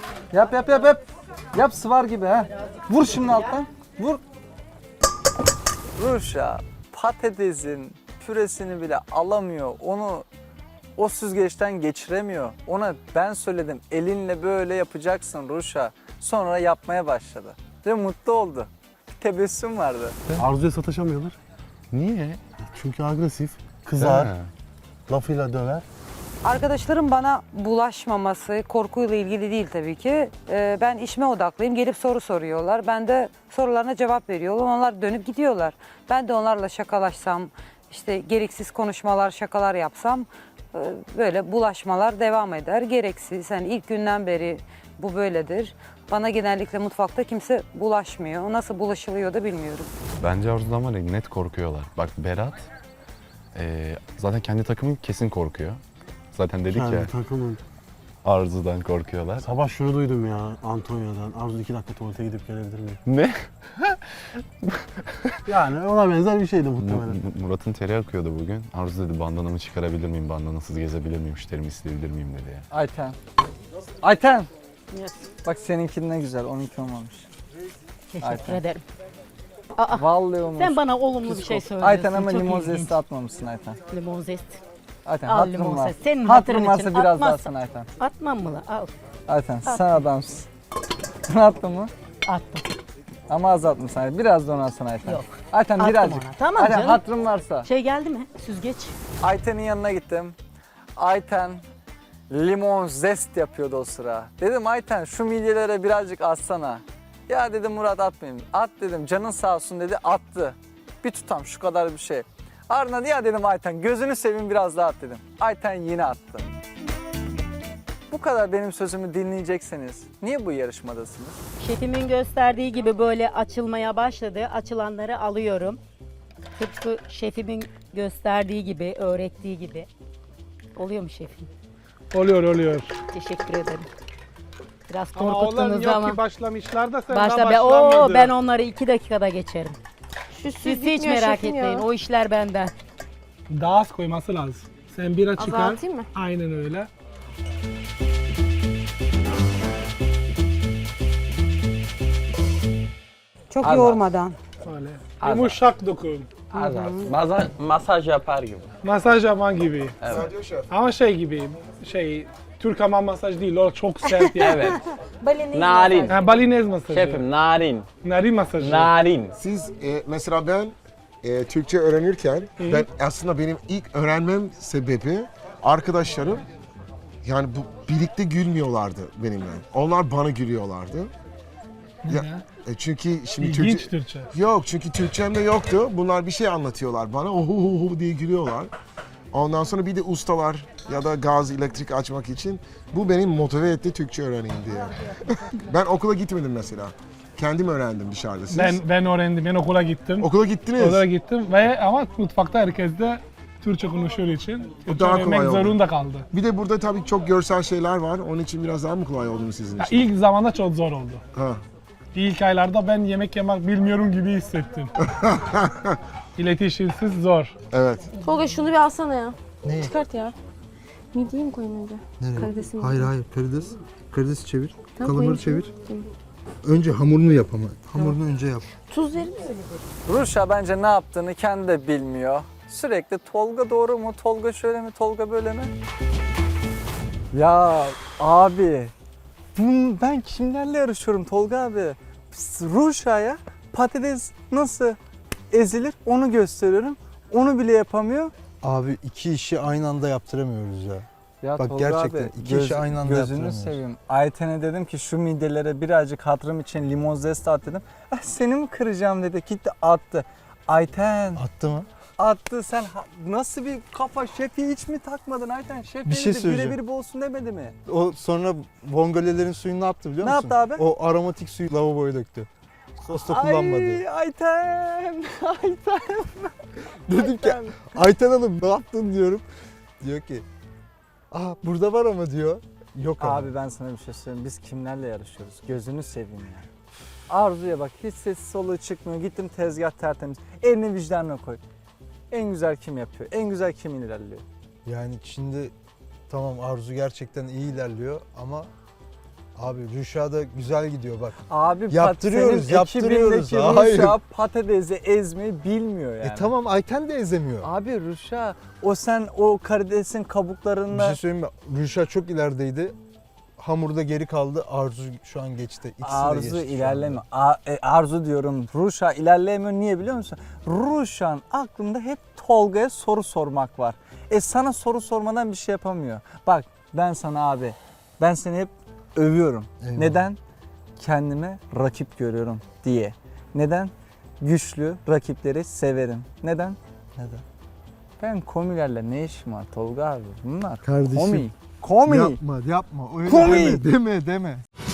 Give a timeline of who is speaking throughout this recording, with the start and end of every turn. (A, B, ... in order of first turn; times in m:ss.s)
0:00.3-0:04.2 A
0:06.0-0:10.2 A
0:11.0-0:20.2 A
0:20.4-0:21.4 B
0:21.9-0:22.4 C
0:22.6-0:24.3 B
0:24.0-0:24.5 C
0:25.1-0:25.8 B
0:26.4-0:49.9 D
0:50.2-0:52.7 C
0:53.5-0:55.8 C
0:56.3-0:57.1 C
0:56.7-0:57.6 B
0:58.2-0:59.4 C
0:59.4-1:03.0 B
1:03.1-1:05.4 C
1:05.5-1:07.2 B
1:06.8-1:12.6 C
1:12.7-1:13.2 A
1:14.0-1:14.5 A
1:15.4-1:17.2 A
1:18.1-1:18.8 E
1:18.2-1:18.6 A
1:19.9-1:23.8 A
1:20.6-1:22.6 E
1:23.9-1:24.6 E
1:25.0-1:27.9 A
1:25.3-1:27.4 E
1:28.0-1:28.9 E
1:29.3-1:30.5 A
1:31.3-1:31.9 A
1:32.3-1:32.7 E
1:33.3-1:37.7 A
1:35.8-1:36.9 E
1:37.6-1:38.9 E
1:39.2-1:40.3 A
1:41.0-1:41.6 A
1:42.3-1:56.6 A
1:58.1-2:01.4 A
2:01.6-2:05.8 E
2:06.6-2:09.9 E
2:10.8-2:11.5 E
2:12.1-2:12.9 F
2:13.1-2:13.9 E
2:14.9-2:16.2 E
2:15.1-2:18.4 F
2:17.1-2:19.8 E
2:20.3-2:21.9 G
2:20.6-2:22.7 E
2:23.5-2:26.9 F
2:25.4-2:26.1 G
2:33.5-2:34.4 D
2:33.6-2:34.0 H
2:34.7-2:36.3 F
2:35.2-2:35.6 H
2:36.5-2:38.7 H
2:36.5-2:37.1 D
2:38.8-2:39.9 F
2:40.0-2:40.3 H
2:40.1-2:40.7 I
2:40.7-2:44.5 F
2:44.2-2:44.8 H
2:45.5-2:46.3 H
2:46.1-2:47.2 F
2:46.9-2:47.9 H
2:48.0-2:48.9 F
2:48.6-2:49.4 H
2:49.4-2:56.4 I
2:57.2-3:01.1 I
3:02.0-3:08.7 I
3:02.1-3:02.4 F
3:03.4-3:04.3 F
3:09.3-3:18.9 I
3:18.5-3:20.2 F
3:20.2-3:21.1 I
3:20.8-3:26.2 F
3:24.8-3:30.2 I
3:29.8-3:31.2 F
3:31.3-3:31.6 I
3:32.1-3:34.9 F
3:35.0-3:36.0 I
3:36.4-3:37.5 F
3:37.7-3:38.1 I
3:38.2-3:40.3 G
3:39.6-3:40.0 J
3:41.1-3:43.1 G
3:42.2-3:45.7 J
3:45.0-3:46.1 G
3:46.6-3:48.6 J
3:48.7-3:49.5 G
3:50.0-3:55.7 A
3:57.3-3:58.9 A
3:59.6-4:05.0 A
4:05.5-4:08.3 A
4:08.6-4:11.0 J
4:11.4-4:21.4 A
4:11.6-4:13.8 J
4:21.3-4:21.9 J
4:22.2-4:27.8 A
4:26.0-4:26.8 J
4:27.8-4:32.5 J
4:30.2-4:30.8 A
4:33.0-4:36.6 A
4:33.1-4:34.0 J
4:37.1-4:39.4 J
4:37.1-4:37.9 A
4:40.0-4:40.4 J
4:41.3-4:43.5 J
4:43.2-4:46.7 A
4:47.3-4:51.6 A
4:52.3-4:54.4 A
4:54.8-4:55.7 J
4:56.3-4:58.7 J
4:59.6-5:01.4 J
5:01.5-5:06.5 A
5:01.9-5:04.2 J
5:06.2-5:07.7 J
5:07.6-5:11.2 A
5:10.9-5:12.9 J
5:13.6-5:17.2 J
5:16.0-5:30.4 A
5:29.8-5:30.3 J
5:31.0-5:36.8 A
5:37.2-5:37.4 J
5:38.2-5:42.4 A
5:40.8-5:41.5 J
5:42.0-5:44.6 J
5:43.2-5:43.8 A